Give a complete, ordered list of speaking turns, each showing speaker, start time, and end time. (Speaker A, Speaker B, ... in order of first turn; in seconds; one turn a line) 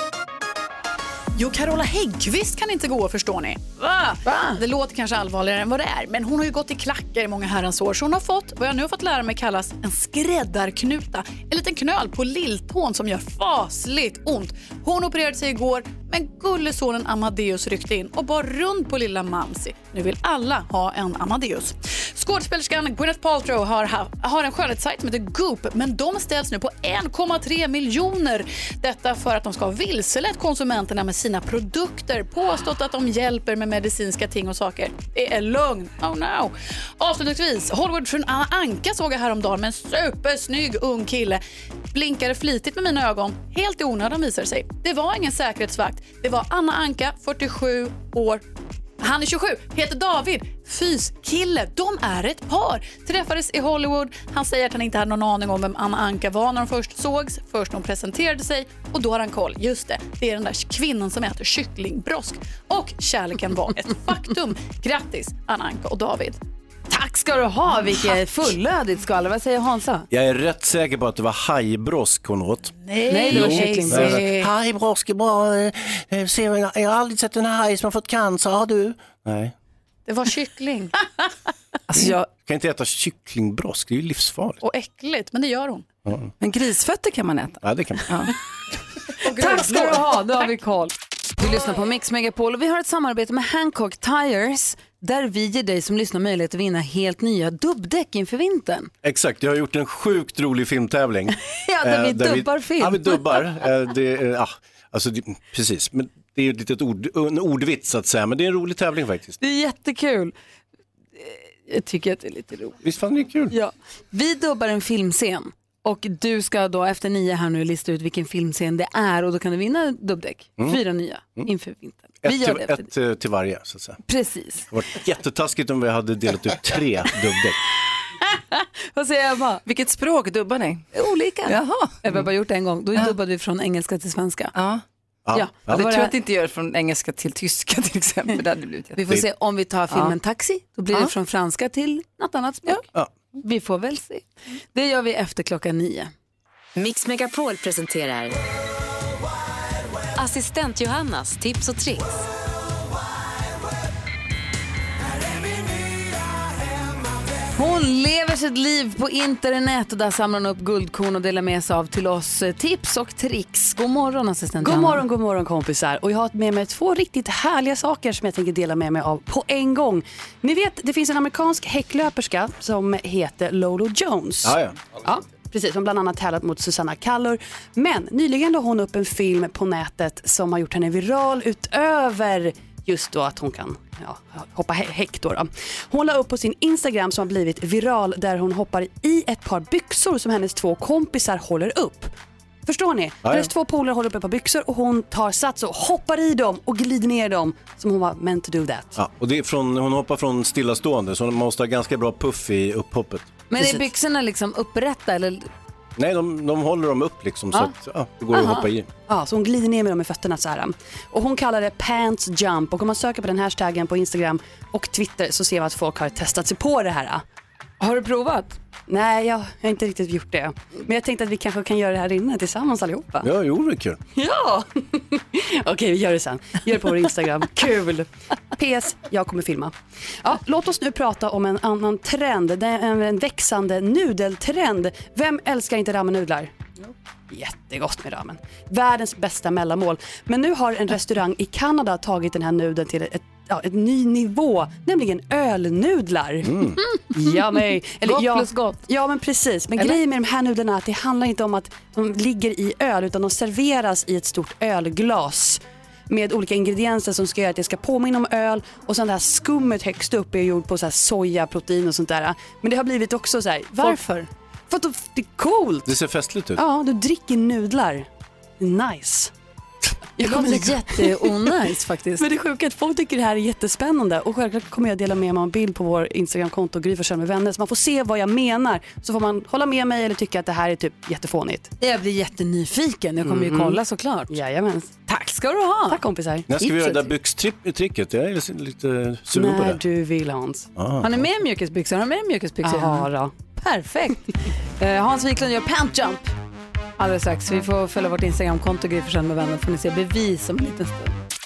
Speaker A: 1.4-41.4
Speaker B: 4.2-4.6
Speaker A: 41.9-48.4
Speaker A: 49.0-66.4
Speaker B: 66.9-70.1
Speaker C: 70.1-72.7
Speaker A: 72.8-74.5
Speaker B: 73.1-74.2
Speaker C: 73.3-79.5
Speaker A: 80.1-81.0
Speaker D: 81.9-82.3
Speaker C: 82.0-84.6
Speaker A: 84.6-85.9
Speaker C: 86.1-86.3
Speaker D: 86.4-88.3
Speaker C: 87.6-88.2
Speaker A: 89.2-90.0
Speaker B: 89.3-98.9
Speaker C: 99.0-109.4
Speaker B: 101.5-103.4
Speaker B: 109.4-110.3
Speaker B: 111.2-112.8
Speaker C: 112.8-113.5
Speaker B: 113.5-122.9
Speaker C: 122.2-124.0
Speaker B: 124.1-124.7
Speaker C: 124.7-127.6
Speaker B: 128.3-129.6
Speaker D: 129.7-130.9
Speaker B: 130.9-134.5
Speaker D: 131.5-132.2
Speaker D: 134.5-134.8
Speaker C: 135.3-135.8
Speaker B: 135.3-136.1
Speaker D: 135.7-139.0
Speaker B: 139.0-142.8
Speaker D: 139.9-140.2
Speaker B: 143.4-146.1
Speaker E: 146.8-148.4
Speaker E: 150.2-152.3
Speaker B: 157.6-165.0
Speaker F: 164.6-192.1
Speaker C: 174.4-174.8
Speaker F: 192.7-199.0
Speaker C: 193.2-193.5
Speaker C: 199.0-203.3
Speaker B: 203.5-205.5
Speaker F: 203.6-203.8
Speaker C: 206.0-208.9
Speaker B: 208.3-208.7
Speaker F: 209.1-217.2
Speaker B: 217.8-218.6
Speaker F: 218.9-223.3
Speaker C: 223.2-224.0
Speaker F: 224.2-236.5
Speaker F: 237.3-246.6
Speaker C: 246.4-246.8
Speaker F: 247.1-264.0
Speaker B: 248.0-248.8
Speaker B: 263.7-264.3
Speaker F: 264.7-265.9
Speaker C: 265.9-266.6
Speaker F: 266.6-268.1
Speaker F: 268.6-269.3
Speaker F: 270.2-271.4
Speaker B: 270.2-272.2
Speaker F: 272.2-281.7
Speaker B: 281.8-284.3
Speaker F: 283.2-285.0
Speaker B: 285.1-286.0
Speaker F: 285.9-286.9
Speaker C: 286.5-289.8
Speaker F: 289.3-290.7
Speaker C: 290.8-291.2
Speaker B: 291.0-296.3
Speaker F: 292.6-293.3
Speaker B: 297.0-301.2